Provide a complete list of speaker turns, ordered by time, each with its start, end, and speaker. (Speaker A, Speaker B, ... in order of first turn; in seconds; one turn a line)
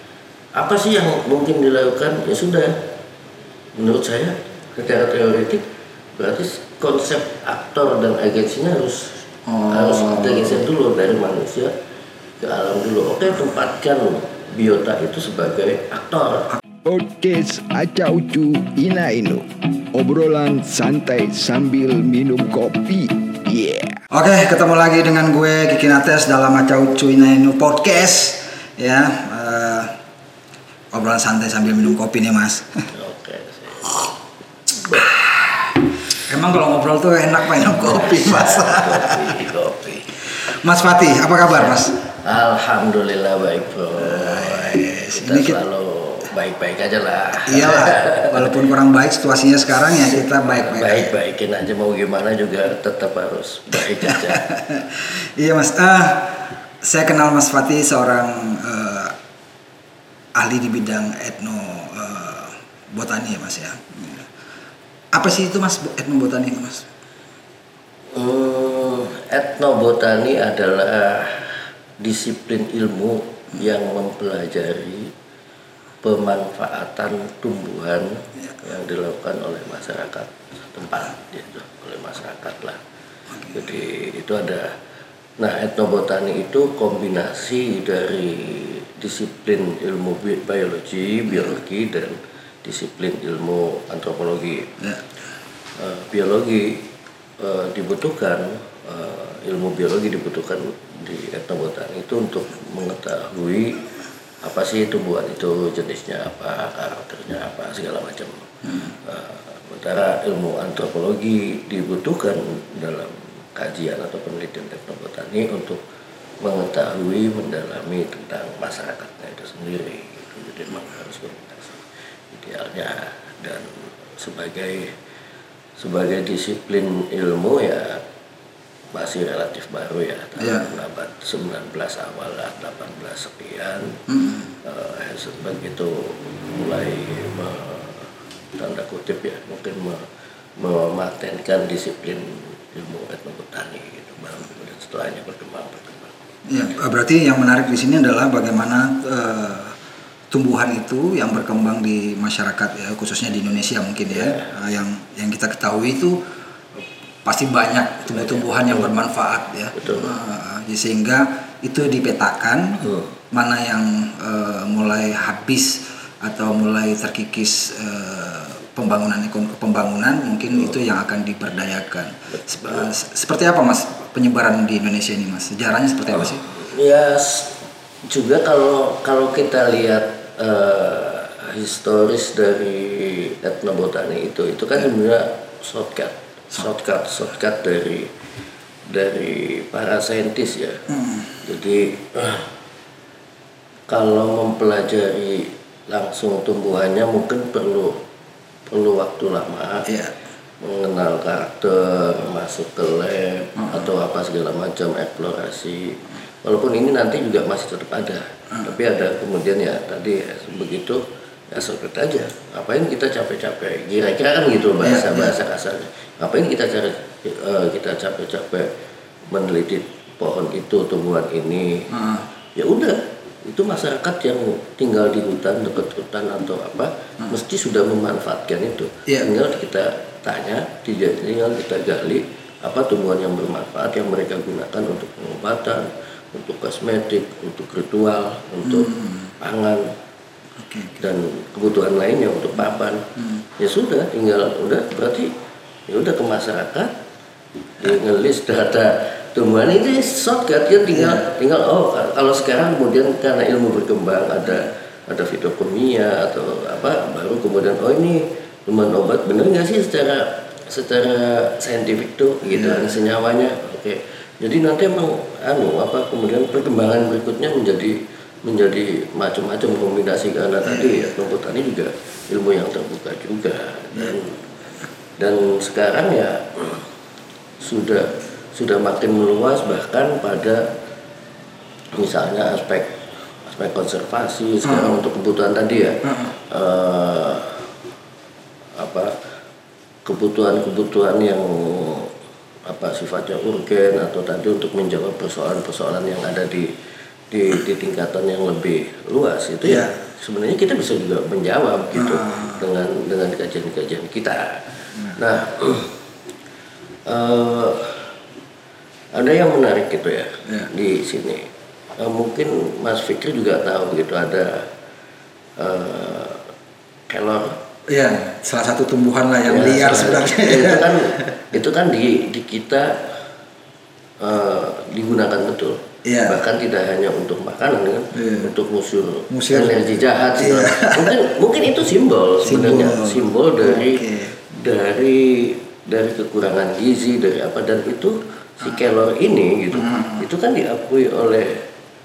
Speaker A: 0.5-2.8
Speaker A: 3.8-5.6
Speaker A: 6.2-11.7
Speaker B: 9.4-10.7
Speaker A: 12.4-16.5
Speaker C: 16.8-24.0
Speaker B: 24.1-29.9
Speaker B: 30.9-32.9
Speaker A: 32.9-34.1
Speaker B: 34.9-39.4
Speaker A: 37.8-40.2
Speaker B: 40.5-41.9
Speaker A: 42.0-48.5
Speaker B: 44.0-45.6
Speaker B: 47.4-51.1
Speaker A: 50.5-54.4
Speaker B: 54.0-59.1
Speaker B: 60.4-64.3
Speaker B: 65.1-66.9
Speaker A: 68.1-75.1
Speaker A: 76.0-82.8
Speaker B: 83.4-83.6
Speaker A: 83.5-84.8
Speaker A: 85.4-94.8
Speaker A: 95.8-96.8
Speaker A: 97.4-103.9
Speaker A: 104.4-115.8
Speaker A: 116.4-124.9
Speaker A: 125.8-128.0
Speaker A: 128.9-134.0
Speaker B: 130.4-130.7
Speaker B: 134.1-134.4
Speaker A: 134.6-140.0
Speaker A: 140.6-146.2
Speaker B: 146.5-149.8
Speaker B: 150.3-156.2
Speaker A: 154.1-154.5
Speaker B: 157.2-176.4
Speaker A: 158.1-158.9
Speaker A: 159.7-160.1
Speaker A: 172.3-172.9
Speaker A: 176.1-188.1
Speaker A: 188.9-190.8
Speaker B: 190.9-191.3
Speaker A: 191.4-192.5
Speaker A: 193.9-198.0
Speaker A: 198.7-199.9
Speaker B: 199.9-200.2
Speaker A: 200.6-218.7
Speaker B: 203.6-203.8
Speaker B: 214.8-215.3
Speaker A: 219.3-221.9
Speaker B: 221.9-222.2
Speaker A: 222.6-239.9
Speaker B: 238.6-239.3
Speaker B: 240.6-241.0
Speaker A: 241.0-245.3
Speaker B: 242.6-243.4
Speaker A: 245.9-246.9
Speaker A: 247.8-274.4
Speaker B: 250.9-251.3
Speaker B: 262.5-262.9
Speaker B: 270.6-271.1
Speaker A: 275.2-276.8
Speaker A: 277.6-280.6
Speaker A: 281.9-287.6
Speaker B: 284.6-285.0
Speaker A: 288.8-289.1
Speaker A: 290.1-292.1
Speaker A: 292.6-296.7
Speaker A: 297.3-304.6
Speaker B: 299.6-300.0
Speaker B: 301.9-302.6
Speaker A: 305.1-305.9
Speaker A: 307.1-308.1
Speaker A: 309.1-314.7
Speaker A: 315.6-316.4
Speaker A: 317.1-317.6
Speaker B: 317.9-321.3
Speaker A: 319.5-323.1
Speaker A: 324.2-341.6
Speaker B: 326.0-326.4
Speaker B: 328.1-328.5
Speaker B: 329.3-329.8
Speaker B: 330.4-331.1
Speaker B: 332.4-334.3
Speaker B: 339.8-340.2